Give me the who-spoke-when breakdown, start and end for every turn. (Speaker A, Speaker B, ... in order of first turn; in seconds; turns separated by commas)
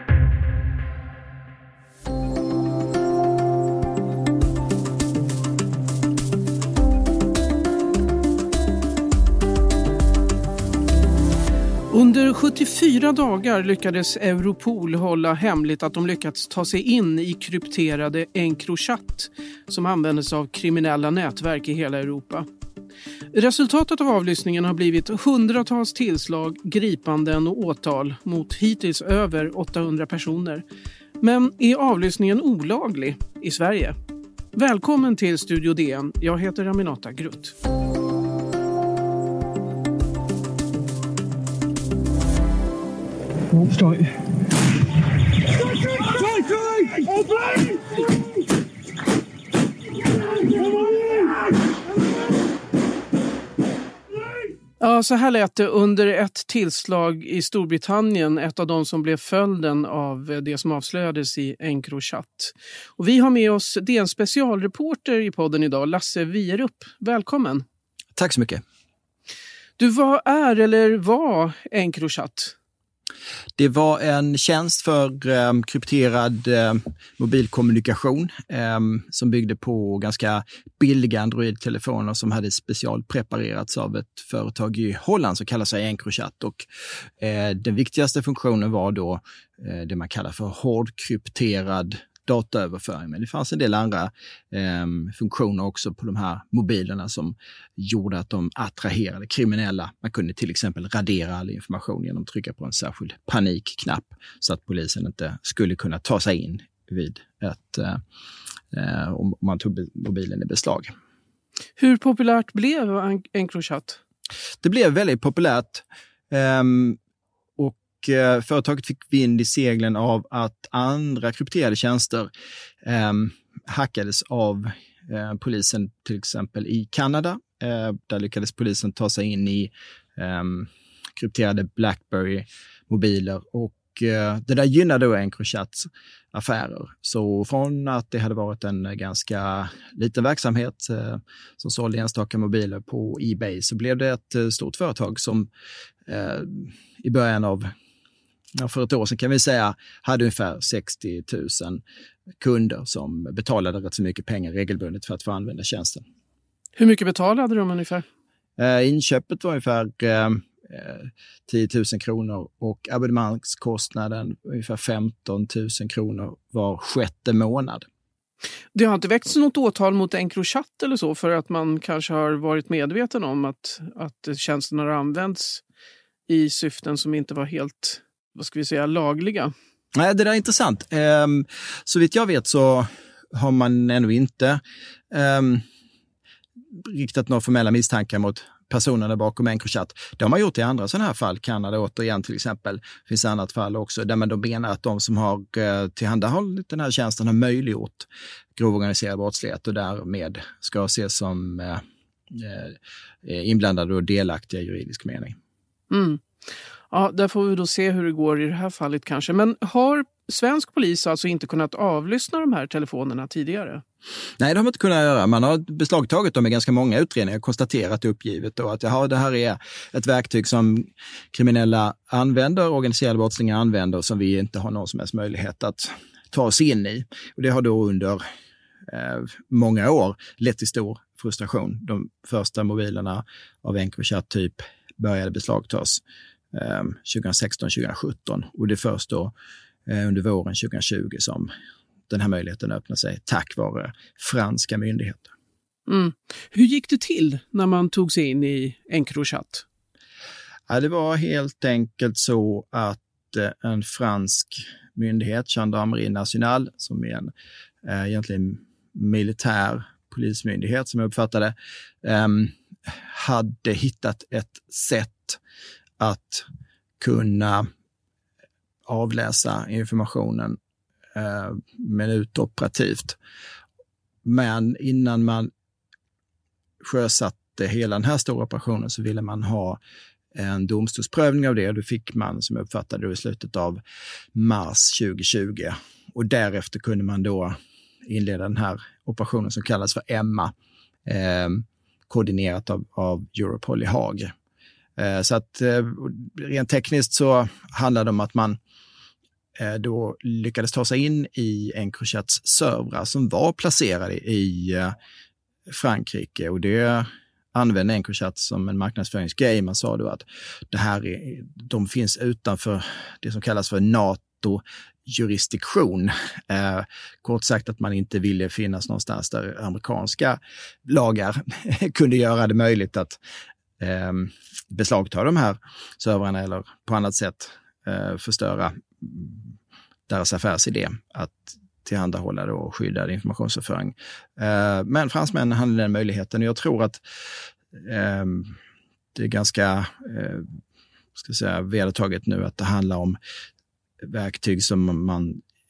Speaker A: 11.9-22.5, Speaker A: 23.3-30.6, Speaker A: 31.2-34.0, Speaker A: 34.5-37.5, Speaker A: 54.8-67.6, Speaker B: 68.2-68.6, Speaker A: 69.8-72.5, Speaker B: 73.6-86.7, Speaker B: 87.2-108.0, Speaker B: 108.7-110.9, Speaker A: 111.8-114.0, Speaker B: 114.6-117.0, Speaker B: 117.6-122.3, Speaker B: 122.8-145.5, Speaker B: 146.1-147.7, Speaker B: 148.6-151.8, Speaker B: 152.4-156.0, Speaker A: 156.8-158.1, Speaker B: 158.6-167.9, Speaker A: 168.7-175.6, Speaker A: 176.3-179.5, Speaker B: 179.9-184.6, Speaker B: 185.1-185.6, Speaker B: 186.8-205.3, Speaker A: 205.9-206.2, Speaker A: 206.9-213.8, Speaker B: 214.4-228.2, Speaker B: 228.9-236.0, Speaker B: 236.5-239.3, Speaker B: 239.9-241.5, Speaker B: 242.1-245.3, Speaker A: 245.9-249.7, Speaker B: 250.7-257.3, Speaker B: 257.9-265.4, Speaker B: 266.0-266.5, Speaker B: 267.0-267.7, Speaker B: 268.9-270.6, Speaker B: 271.1-273.2, Speaker B: 274.2-275.5, Speaker B: 276.8-279.8, Speaker B: 280.4-283.8, Speaker B: 284.4-287.6, Speaker B: 288.1-290.5, Speaker B: 291.1-294.3, Speaker B: 295.0-298.6, Speaker B: 299.6-304.9, Speaker B: 305.7-323.2, Speaker B: 323.8-329.5, Speaker B: 330.1-337.0, Speaker B: 337.7-338.6, Speaker B: 339.1-340.5, Speaker B: 341.2-343.2, Speaker B: 344.0-345.4